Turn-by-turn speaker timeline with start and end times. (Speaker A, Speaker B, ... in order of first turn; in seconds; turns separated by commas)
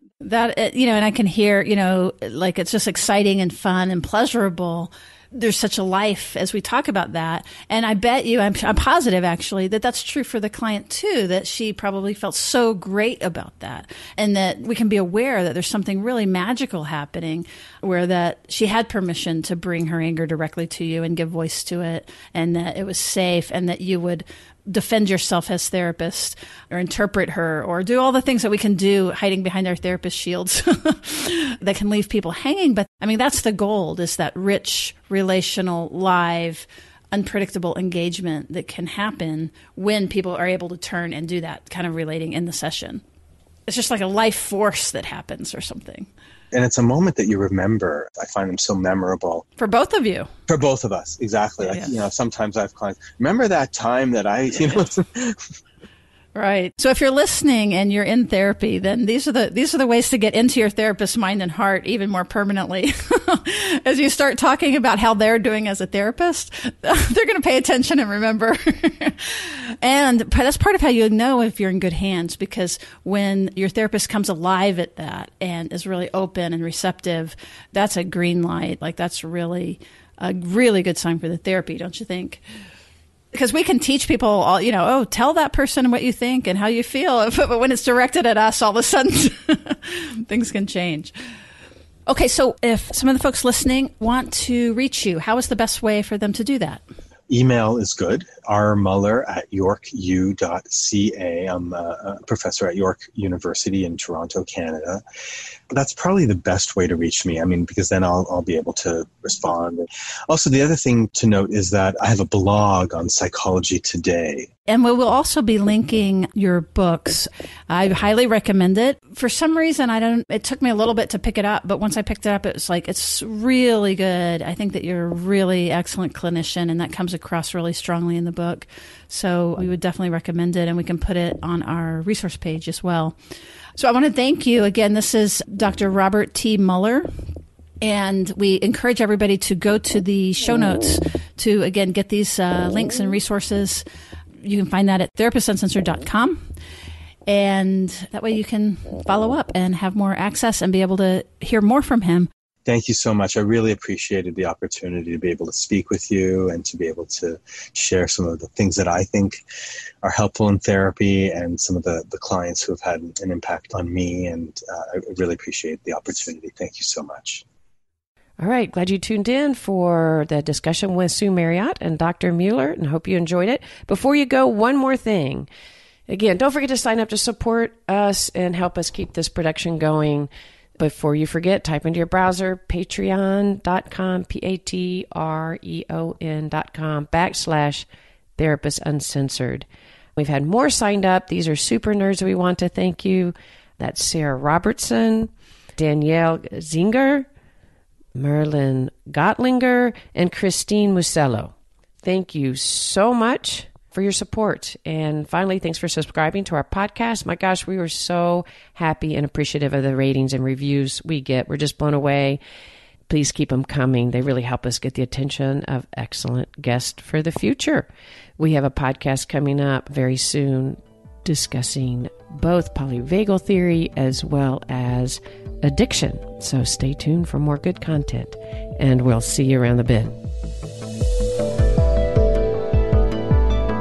Speaker A: 0.2-43.0, Speaker A: 43.7-46.1, Speaker B: 46.5-49.4, Speaker A: 49.6-50.3, Speaker B: 50.5-55.4, Speaker A: 51.7-51.9, Speaker A: 56.3-82.4, Speaker A: 83.3-91.1, Speaker A: 92.1-96.8, Speaker B: 97.3-105.0, Speaker B: 105.7-114.5, Speaker A: 114.7-133.2, Speaker A: 133.8-137.1, Speaker A: 137.8-143.8, Speaker A: 144.4-146.4, Speaker A: 147.3-152.3, Speaker B: 152.7-159.4, Speaker B: 160.0-167.4, Speaker C: 168.4-175.5, Speaker C: 176.1-187.8, Speaker C: 188.4-189.7, Speaker C: 190.2-197.3, Speaker C: 198.2-212.4, Speaker C: 213.1-217.9, Speaker C: 218.4-230.2